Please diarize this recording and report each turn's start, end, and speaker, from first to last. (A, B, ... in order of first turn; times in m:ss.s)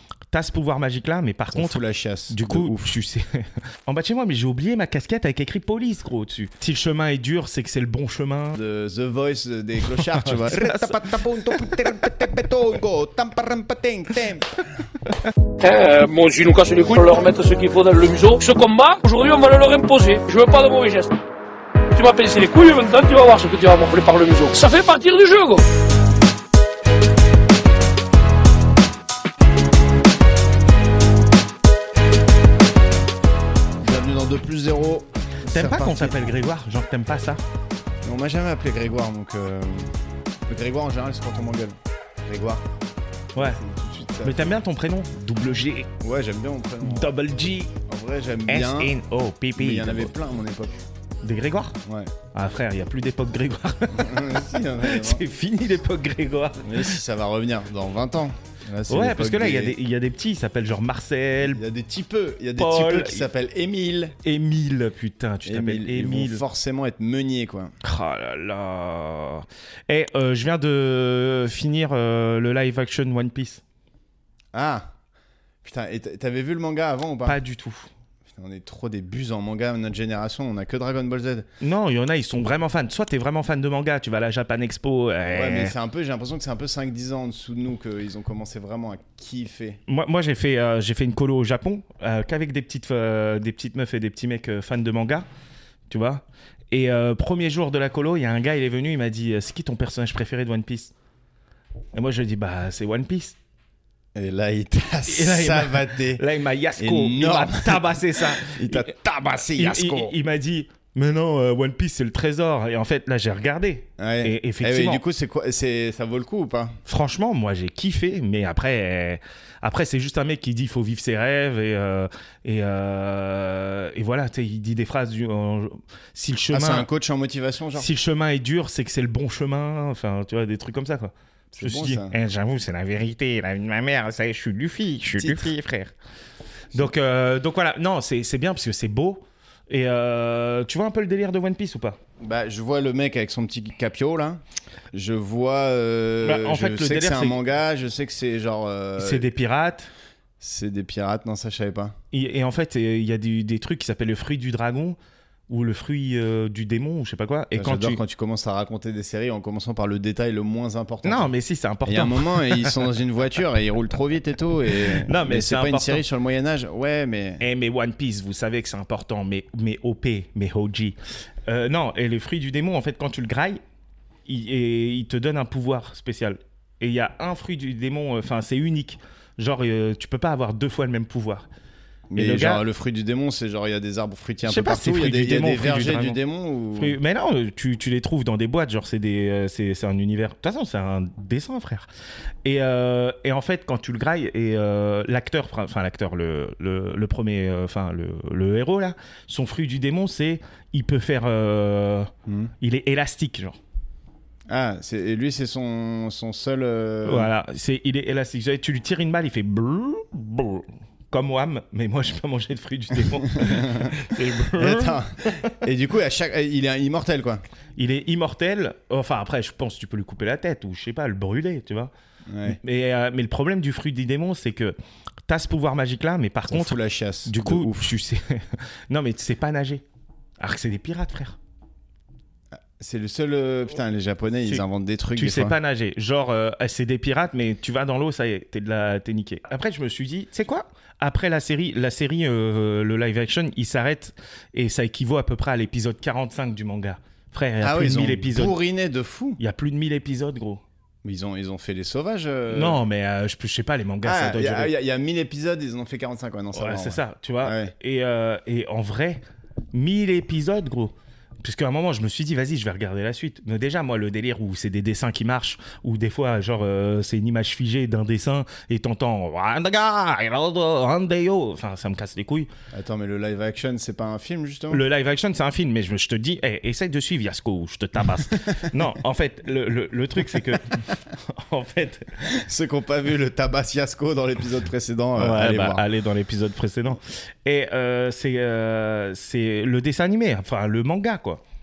0:00.3-0:01.8 A
0:01.5-0:02.9 B
0:02.3-0:08.6 A
0:08.6-0:14.6 B
0:09.9-0:11.4 A
0:15.6-0:21.1 C
0:21.9-0:25.6 C
0:33.8-0:36.2 B
0:35.5-0:37.4 A
0:38.0-0:40.0 B
0:40.5-0:42.6 B
0:43.4-0:43.6 A
0:43.4-0:44.5 B
0:44.2-0:45.9 A
0:46.0-0:47.1 B
0:46.8-0:47.7 A
0:47.8-0:48.9 B
0:48.5-0:50.1 A
0:49.6-0:50.8 B
0:51.2-0:51.8 A
0:51.8-0:52.1 B
0:52.3-0:56.9 A
0:53.9-0:55.2 B
0:56.6-0:59.7 B
0:58.9-1:01.6 A
1:01.4-1:04.2 B
1:02.6-1:03.3 A
1:04.2-1:06.4 A
1:05.4-1:07.7 B
1:07.8-1:13.6 A
1:14.5-1:14.8 B
1:15.6-1:17.4 B
1:17.2-1:17.9 A
1:18.3-1:21.4 B
1:21.6-1:25.7 A
1:25.3-1:29.8 B
1:29.9-1:35.3 A
1:35.9-1:40.9 A
1:41.9-1:43.4 A
1:44.1-1:46.2 B
1:45.1-1:48.9 A
1:46.8-1:50.2 B
1:49.6-1:55.0 A
1:54.0-1:56.8 B
1:56.8-2:06.9 A
2:06.5-2:07.9 B
2:07.8-2:15.9 A
2:11.5-2:12.1 B
2:15.1-2:15.5 B
2:16.7-2:22.0 A
2:22.2-2:24.4 B
2:24.9-2:29.3 B
2:26.2-2:27.4 A
2:29.0-2:29.9 A
2:30.4-2:31.9 B
2:32.1-2:35.0 A
2:35.5-2:38.0 A
2:37.5-2:41.3 B
2:41.0-2:42.8 A
2:41.8-2:47.4 B
2:45.0-2:46.0 A
2:47.4-2:51.0 A
2:51.5-2:53.6 A
2:54.3-3:01.5 A
3:02.1-3:07.0 B
3:02.1-3:02.6 A
3:04.4-3:06.2 A
3:06.8-3:11.9 A
3:12.4-3:23.6 A
3:22.2-3:22.5 B
3:24.5-3:27.3 B
3:27.0-3:35.6 A
3:33.0-3:34.0 B
3:34.5-3:37.4 B
3:37.8-3:41.9 A
3:42.3-3:42.6 B
3:42.4-3:44.7 A
3:45.2-3:49.8 A
3:46.5-3:47.9 B
3:50.4-3:51.4 A
3:52.8-3:55.6 B
3:55.1-4:08.6 A
4:07.6-4:09.4 B
4:09.4-4:10.6 A
4:11.0-4:12.8 B
4:12.5-4:14.7 A
4:14.0-4:17.7 B
4:16.5-4:19.2 A
4:19.7-4:32.5 A
4:32.7-4:34.8 B
4:34.7-4:42.2 A
4:40.3-4:40.6 B
4:42.2-4:45.8 B
4:45.2-4:51.4 A